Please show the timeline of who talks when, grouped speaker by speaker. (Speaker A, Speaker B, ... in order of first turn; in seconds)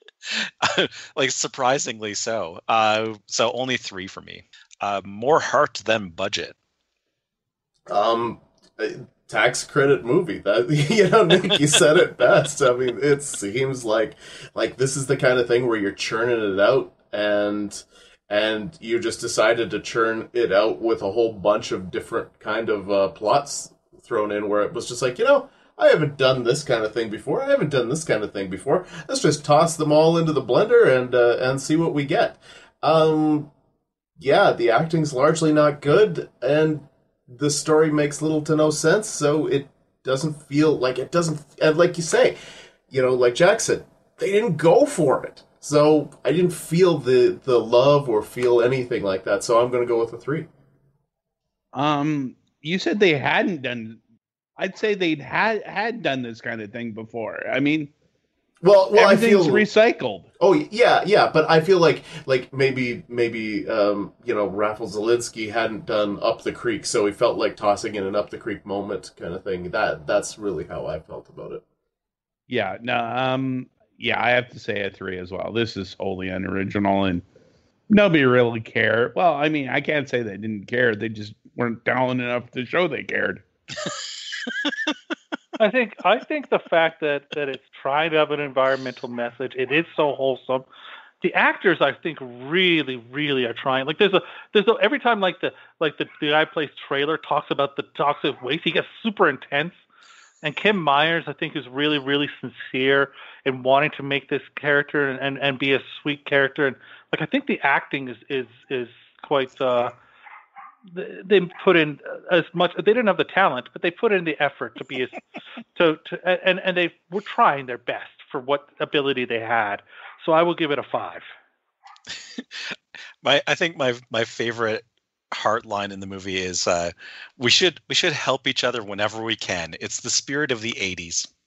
Speaker A: 0.2-6.5, 122.3-131.3
Speaker B: 7.9-33.5, 34.2-42.4, 42.9-50.5, 58.6-59.7, 60.4-71.6
Speaker C: 51.7-54.0, 54.6-57.9, 59.0-60.3, 72.5-77.2, 77.9-83.4
Speaker D: 85.6-90.7, 91.2-99.8, 100.4-109.9, 110.9-115.2, 115.8-121.2